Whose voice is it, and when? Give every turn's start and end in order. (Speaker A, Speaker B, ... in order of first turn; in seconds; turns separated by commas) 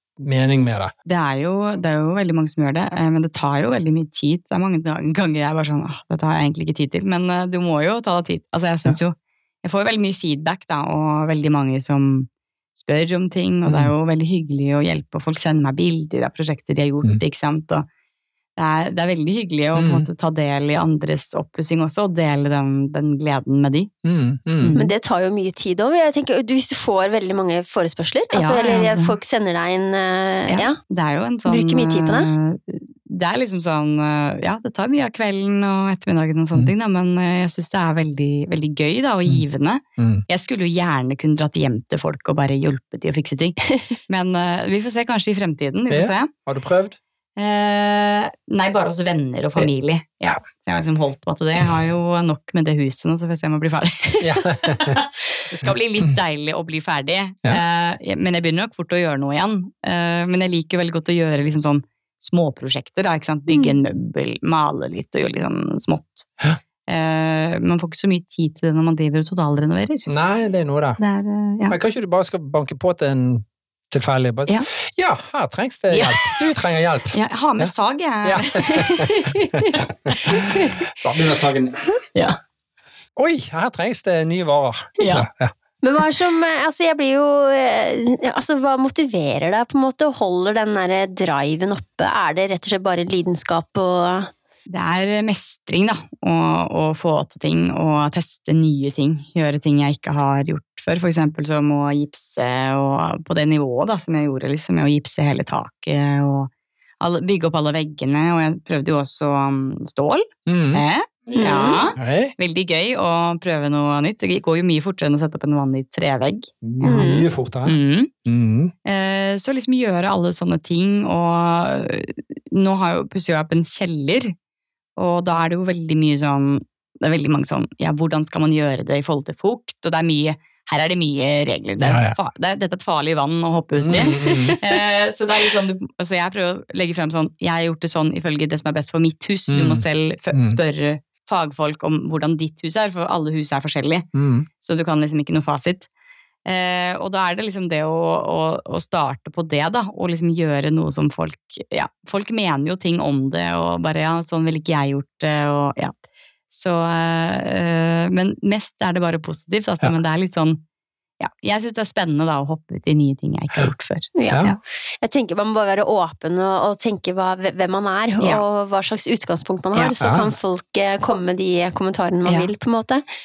Speaker A: 0.2-0.9, Speaker B: 1.1-17.9, Speaker A: 13.7-13.9, Speaker B: 18.6-23.9, Speaker A: 19.8-20.1, Speaker A: 24.0-24.8, Speaker B: 24.6-24.9, Speaker C: 24.7-30.8, Speaker B: 28.3-29.2, Speaker B: 30.5-46.3, Speaker C: 31.5-32.3, Speaker A: 40.0-40.2, Speaker A: 45.9-47.0, Speaker B: 47.4-66.3, Speaker A: 54.2-55.0, Speaker C: 63.5-63.8, Speaker B: 66.9-70.1, Speaker A: 70.1-71.0, Speaker B: 71.0-71.8, Speaker A: 71.7-77.7, Speaker B: 75.9-76.4, Speaker B: 77.1-79.3, Speaker A: 78.2-81.8, Speaker A: 83.2-85.5, Speaker B: 85.0-85.3, Speaker C: 85.8-94.3, Speaker B: 94.7-117.1, Speaker A: 110.5-110.8, Speaker C: 111.3-111.8, Speaker A: 112.0-112.3, Speaker A: 116.6-118.7, Speaker C: 116.8-117.3, Speaker B: 117.7-118.1, Speaker B: 118.8-124.3, Speaker B: 125.0-144.1, Speaker A: 131.8-132.2, Speaker A: 133.8-134.6, Speaker A: 139.5-140.6, Speaker A: 144.2-144.5, Speaker B: 144.6-145.9, Speaker B: 146.5-156.0, Speaker B: 156.5-160.6, Speaker B: 161.2-164.6, Speaker C: 164.2-173.1, Speaker A: 170.0-170.3, Speaker B: 172.2-172.5